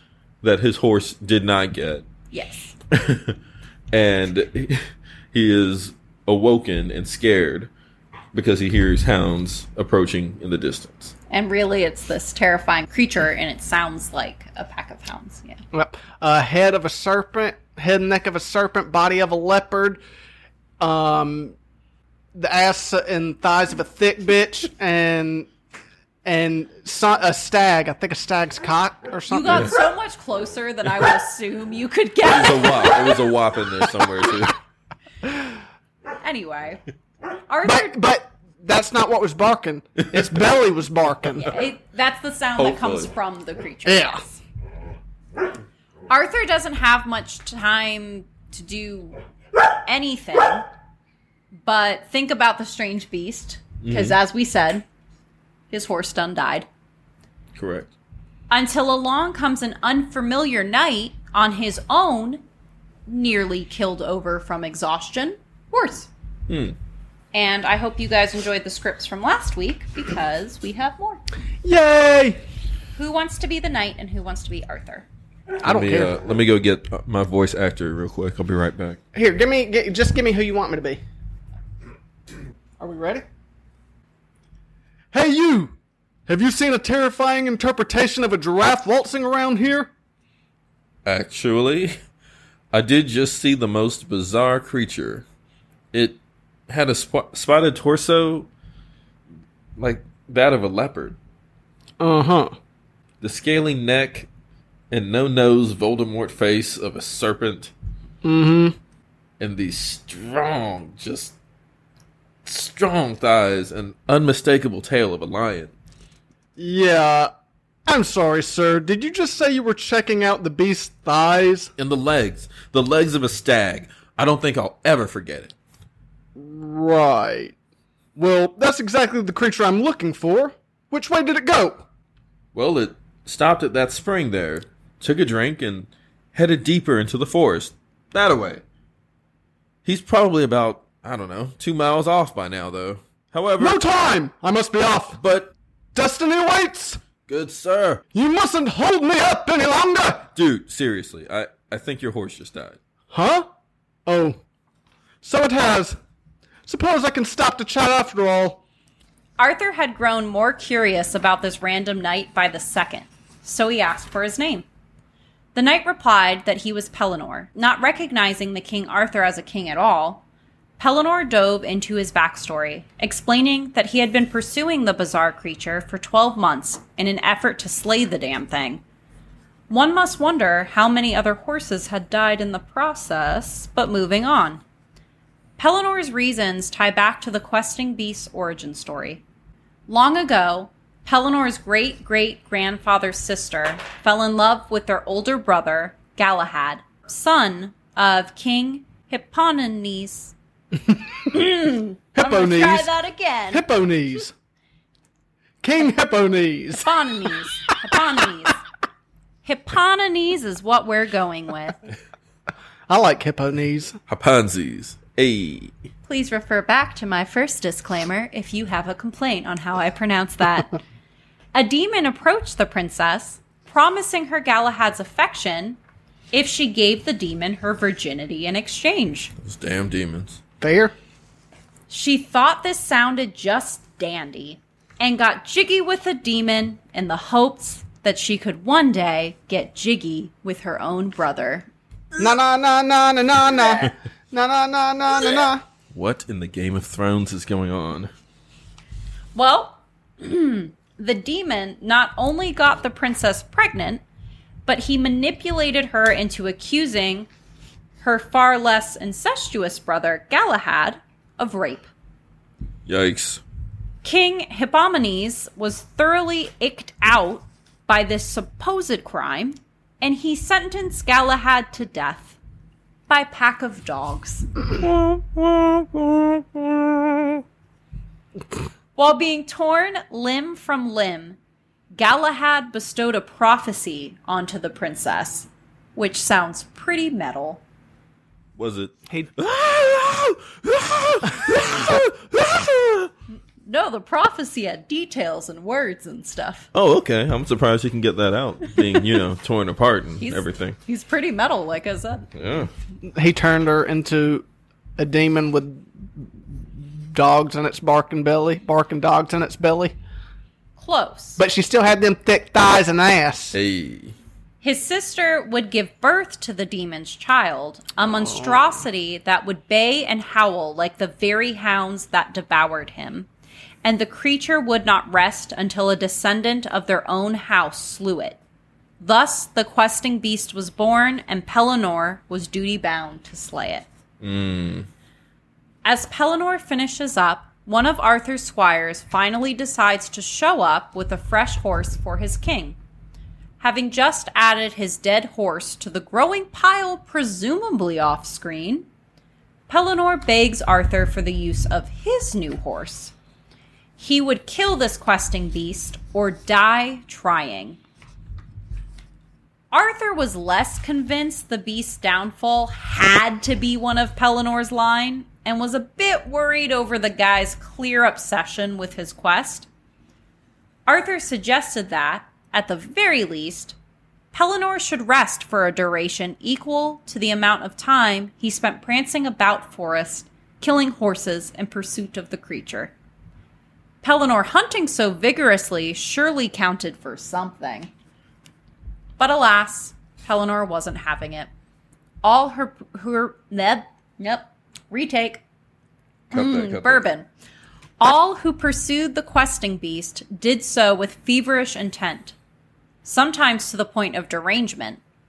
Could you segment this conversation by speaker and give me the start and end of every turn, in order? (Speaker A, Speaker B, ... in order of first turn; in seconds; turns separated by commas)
Speaker A: 0.4-2.0, Speaker B: 2.3-2.8, Speaker A: 2.9-3.4, Speaker A: 3.9-7.7, Speaker A: 8.3-11.1, Speaker B: 11.3-15.6, Speaker C: 15.7-20.0, Speaker C: 20.8-21.6, Speaker C: 22.3-25.5, Speaker C: 26.2-29.8, Speaker B: 29.3-33.2, Speaker A: 32.3-34.5, Speaker B: 36.2-36.8, Speaker B: 37.5-38.0, Speaker C: 37.6-41.5, Speaker B: 41.4-44.4, Speaker A: 42.6-43.1, Speaker C: 43.9-44.2, Speaker B: 46.1-49.2, Speaker B: 49.8-50.6, Speaker B: 51.6-54.8, Speaker A: 53.8-54.2, Speaker B: 55.7-56.7, Speaker A: 57.5-57.9, Speaker B: 58.5-62.4, Speaker B: 63.0-66.1, Speaker A: 66.5-66.8, Speaker B: 67.3-71.2, Speaker C: 71.6-72.4, Speaker B: 73.0-75.0, Speaker C: 75.6-76.2, Speaker A: 75.6-79.0, Speaker C: 79.1-81.0, Speaker C: 82.8-83.2, Speaker C: 85.1-85.7, Speaker C: 86.3-89.9, Speaker A: 91.0-91.9, Speaker A: 92.7-95.2, Speaker A: 95.9-98.5, Speaker A: 99.8-101.2, Speaker C: 102.0-102.5, Speaker A: 103.2-104.3, Speaker A: 104.9-107.7, Speaker C: 108.2-108.8, Speaker A: 109.4-111.3, Speaker A: 112.4-115.7, Speaker C: 116.6-117.3, Speaker C: 117.9-121.7, Speaker A: 121.8-125.5, Speaker C: 126.3-127.5, Speaker C: 128.2-131.8, Speaker A: 132.5-138.6, Speaker A: 139.8-143.8, Speaker C: 143.6-145.2, Speaker A: 145.2-145.5, Speaker C: 145.9-147.0, Speaker A: 147.3-148.0, Speaker C: 148.1-150.3, Speaker A: 150.3-152.8, Speaker C: 153.1-153.5, Speaker C: 154.1-154.4, Speaker C: 155.2-156.0, Speaker C: 156.7-158.6, Speaker B: 159.4-164.7, Speaker B: 165.5-170.2, Speaker B: 170.8-178.8, Speaker B: 179.7-184.6, Speaker B: 185.6-189.2, Speaker B: 189.9-200.3, Speaker C: 200.9-201.4, Speaker B: 201.3-203.6, Speaker C: 202.1-202.9, Speaker C: 203.5-204.3, Speaker C: 205.6-206.9, Speaker B: 206.8-208.6, Speaker B: 209.4-211.8, Speaker C: 212.9-214.0, Speaker A: 214.1-215.7, Speaker B: 216.1-220.8, Speaker B: 221.5-225.8, Speaker B: 226.3-229.3, Speaker A: 229.4-230.4, Speaker C: 230.6-230.9, Speaker B: 231.9-241.7, Speaker C: 242.2-245.6, Speaker A: 245.9-248.1, Speaker B: 249.3-254.0, Speaker B: 254.7-257.3, Speaker B: 258.0-261.9, Speaker A: 262.9-263.4, Speaker B: 264.0-272.4, Speaker B: 273.1-274.5, Speaker A: 274.8-277.4, Speaker B: 278.9-281.4, Speaker B: 281.9-287.6, Speaker A: 288.6-293.1, Speaker B: 293.6-296.7, Speaker A: 296.7-300.8, Speaker B: 300.2-302.3, Speaker A: 302.3-302.7, Speaker C: 303.1-304.4, Speaker C: 305.0-309.9, Speaker B: 310.8-311.4, Speaker C: 311.4-313.6, Speaker A: 313.5-314.1, Speaker B: 314.6-323.3, Speaker B: 323.8-328.4, Speaker B: 329.0-333.9, Speaker A: 334.2-334.9, Speaker B: 335.8-342.8, Speaker B: 343.6-348.9, Speaker B: 349.7-353.1, Speaker B: 354.0-357.8, Speaker B: 359.7-369.7, Speaker B: 370.9-373.8, Speaker B: 374.3-382.9, Speaker B: 384.0-387.9, Speaker B: 389.2-391.5, Speaker B: 392.2-395.4, Speaker A: 396.3-397.1, Speaker B: 396.3-397.2, Speaker B: 398.0-402.3, Speaker B: 403.0-405.0